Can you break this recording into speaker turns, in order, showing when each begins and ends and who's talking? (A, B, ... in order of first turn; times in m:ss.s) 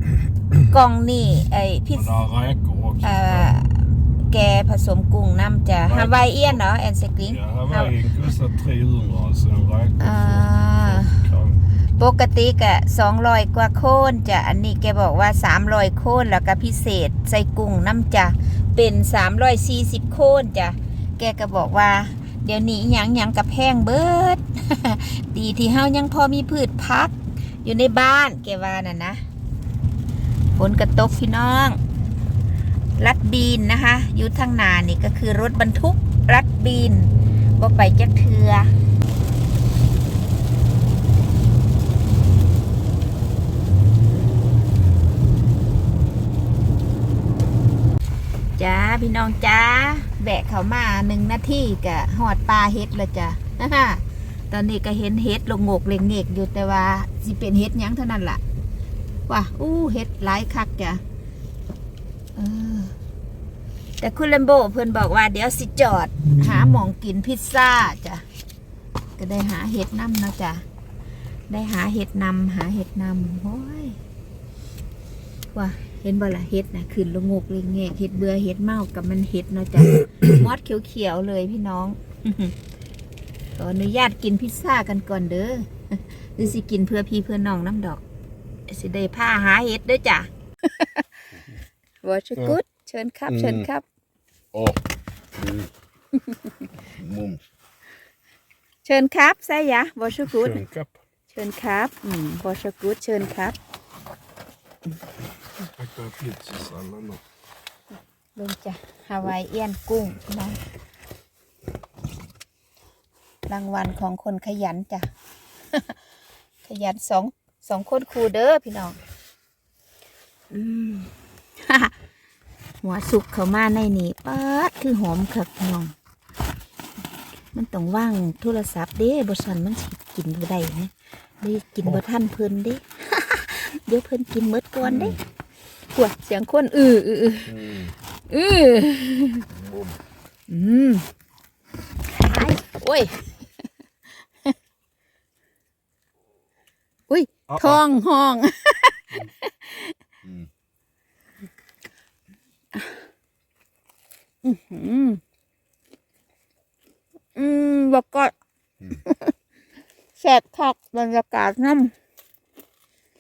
0:00.7-0:02.2 A
0:01.9-0:03.5 B
0:03.0-0:07.9 A
0:05.8-0:06.6 B
0:07.2-0:11.6 B
0:10.0-0:11.2 A
0:12.0-0:29.2 A
0:30.6-0:31.8 A
0:33.0-0:38.7 A
0:48.6-0:58.4 A
0:59.3-1:01.0 A
1:02.4-1:02.9 A
1:04.0-1:08.2 A
1:09.2-1:10.6 A
1:11.5-1:14.0 A
1:15.5-1:22.5 A
1:23.6-1:28.0 A
1:28.7-1:31.0 A
1:32.0-1:33.8 A
1:33.3-1:33.7 B
1:34.5-1:34.8 B
1:35.3-1:35.7 B
1:36.9-1:37.4 B
1:38.8-1:40.6 A
1:40.2-1:41.0 B
1:41.3-1:43.6 A
1:45.7-1:47.2 B
1:48.4-1:50.6 A
1:53.5-1:55.1 A
1:56.6-1:59.0 A
2:00.5-2:01.9 A
2:02.8-2:05.9 A
2:07.5-2:15.2 A
2:14.8-2:15.2 B
2:15.9-2:17.6 A
2:17.5-2:18.0 B
2:18.3-2:19.4 A
2:19.5-2:20.0 B
2:20.5-2:21.0 A
2:22.2-2:23.2 A
2:27.1-2:29.9 A
2:27.5-2:27.8 B
2:30.2-2:30.5 B
2:32.7-2:33.0 A
2:34.4-2:35.2 A
2:37.3-2:38.3 A
2:39.0-2:39.3 A
2:40.2-2:41.9 A